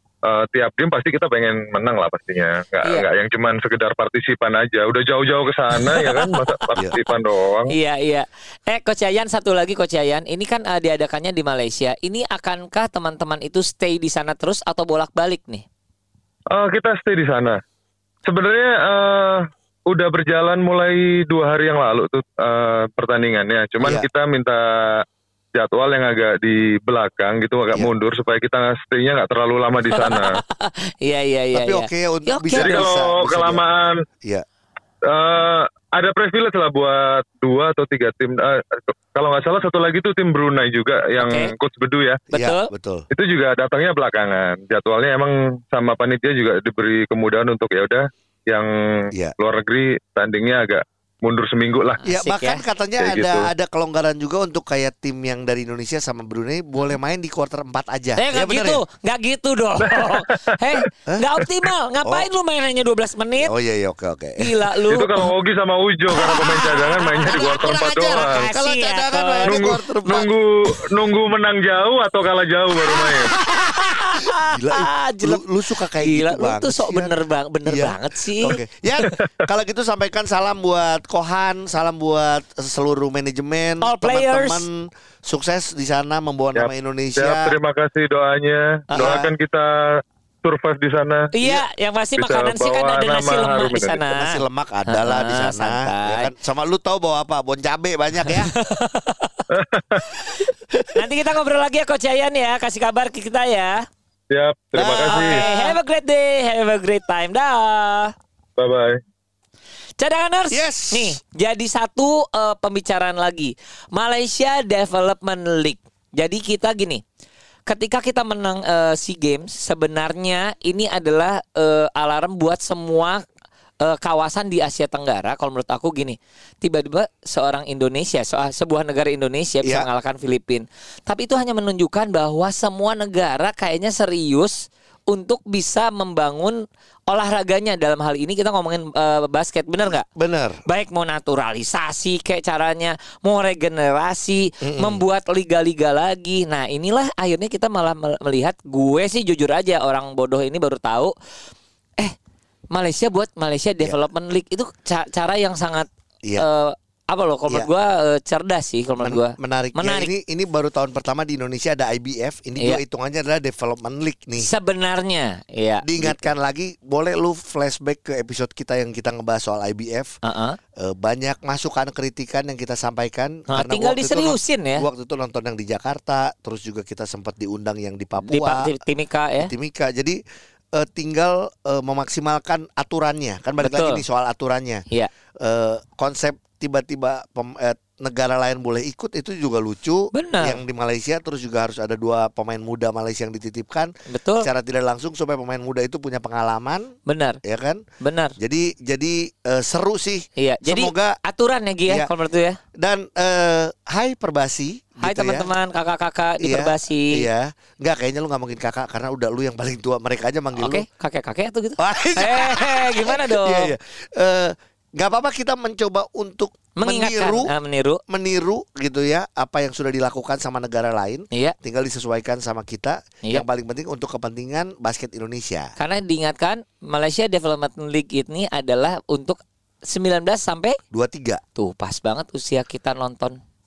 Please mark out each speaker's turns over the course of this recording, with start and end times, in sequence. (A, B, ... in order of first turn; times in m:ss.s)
0:00.3-0:07.7 A
0:05.8-0:07.0 B
0:07.7-0:15.6 B
0:16.5-0:17.6 A
0:18.3-0:24.6 A
0:25.5-0:30.4 A
0:29.9-0:32.8 B
0:31.5-0:33.6 C
0:32.6-0:34.0 A
0:35.1-0:42.2 A
0:41.2-0:41.5 B
0:42.3-0:42.7 B
0:42.3-0:43.0 C
0:43.1-0:48.7 A
0:49.4-0:52.0 A
0:52.0-0:52.6 B
0:52.1-0:58.8 C
0:53.0-0:53.5 A
0:58.2-1:03.5 B
0:59.8-1:00.2 A
1:02.0-1:02.3 C
1:03.4-1:04.7 C
1:04.4-1:05.3 B
1:04.9-1:08.5 A
1:06.1-1:07.0 B
1:07.0-1:10.3 C
1:08.2-1:09.6 B
1:09.4-1:13.3 A
1:13.3-1:15.4 B
1:14.5-1:17.1 C
1:16.0-1:18.6 B
1:17.6-1:27.5 C
1:23.8-1:24.6 B
1:26.6-1:29.7 A
1:28.9-1:29.3 B
1:28.9-1:29.2 C
1:30.4-1:31.3 A
1:31.3-1:36.3 B
1:32.2-1:34.0 A
1:34.1-1:38.5 C
1:38.4-1:39.4 B
1:39.5-1:40.2 A
1:40.0-1:40.4 B
1:40.9-1:43.8 B
1:44.3-1:45.4 A
1:44.7-1:45.5 C
1:45.1-1:48.1 B
1:48.6-1:49.0 A
1:50.0-1:57.0 B
1:50.5-1:51.2 C
1:57.7-2:03.2 B
2:03.8-2:20.0 B
2:19.8-2:20.6 C
2:20.6-2:31.1 B
2:24.6-2:25.0 C
2:32.7-2:40.1 B
2:39.0-2:44.5 C
2:44.4-2:46.3 B
2:45.8-2:50.1 C
2:50.2-2:50.6 B
2:50.8-2:58.7 C
2:53.5-2:54.8 B
2:58.2-2:59.5 B
2:59.4-3:00.2 C
3:00.8-3:04.8 C
3:03.6-3:04.0 B
3:05.4-3:13.9 C
3:10.1-3:10.6 B
3:14.1-3:14.4 B
3:14.4-3:16.8 C
3:17.1-3:17.4 B
3:17.4-3:17.8 C
3:18.0-3:18.3 B
3:18.4-3:21.1 C
3:20.4-3:22.6 B
3:22.8-3:25.5 C
3:25.0-3:27.2 B
3:26.4-3:30.8 C
3:30.6-3:33.7 B
3:31.8-3:37.5 C
3:36.8-3:38.0 B
3:38.1-3:45.7 C
3:45.8-3:50.8 B
3:50.9-3:51.4 C
3:51.6-3:53.4 B